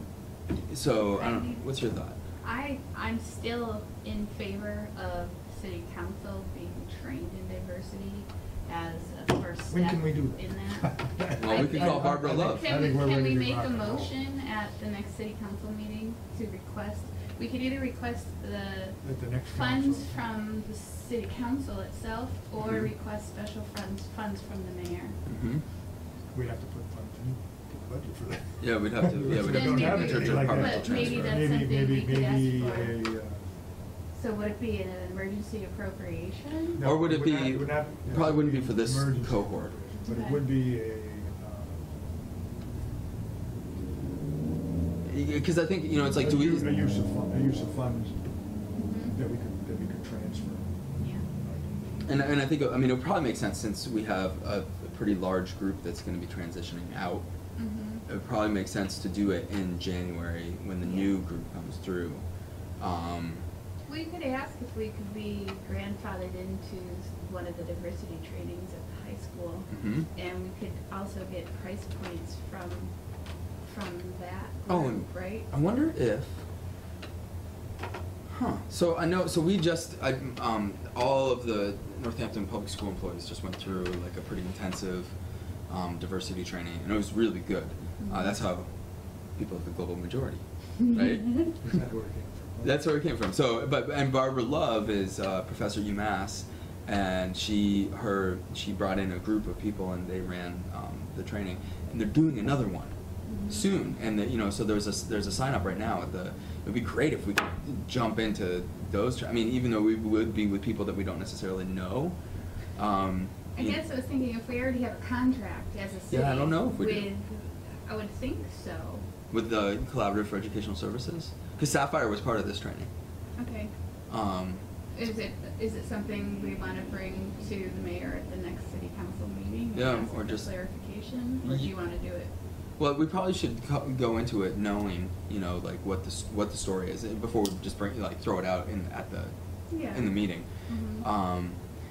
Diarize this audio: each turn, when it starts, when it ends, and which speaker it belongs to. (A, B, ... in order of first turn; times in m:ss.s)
0:00.7-0:02.2 A
0:01.1-0:01.6 B
0:02.4-0:25.2 B
0:09.7-0:14.1 C
0:11.4-0:12.8 A
0:19.0-0:20.2 C
0:22.6-0:22.9 A
0:25.2-0:25.6 A
0:26.3-0:33.4 C
0:28.6-0:31.4 A
0:29.3-0:33.0 B
0:34.2-0:36.8 B
0:36.7-0:41.9 C
0:36.8-0:39.7 A
0:40.0-0:40.5 B
0:45.0-0:46.8 A
0:46.2-0:48.2 C
0:48.8-0:49.2 B
0:49.1-0:50.7 C
0:51.0-0:51.2 B
0:51.4-0:52.0 C
0:52.0-0:57.2 A
0:57.6-0:58.0 B
0:58.0-1:02.2 A
1:00.8-1:01.1 B
1:02.8-1:03.4 A
1:03.9-1:12.9 B
1:09.7-1:10.1 A
1:13.6-1:15.5 B
1:14.7-1:16.4 A
1:18.3-1:25.1 A
1:25.7-1:28.7 A
1:28.0-1:28.4 B
1:29.4-1:31.4 A
1:30.9-1:31.4 B
1:31.6-1:32.8 C
1:32.6-1:42.9 A
1:43.3-1:43.6 B
1:43.4-1:52.2 A
1:52.7-1:53.8 A
1:53.5-1:59.0 B
1:56.1-1:57.1 A
1:59.3-2:02.9 A
2:03.4-2:03.7 B
2:04.1-2:04.6 A
2:04.9-2:12.3 B
2:09.7-2:10.5 A
2:11.4-2:11.7 A
2:12.8-2:19.3 A
2:19.7-2:21.0 B
2:19.9-2:20.5 A
2:21.0-2:21.6 A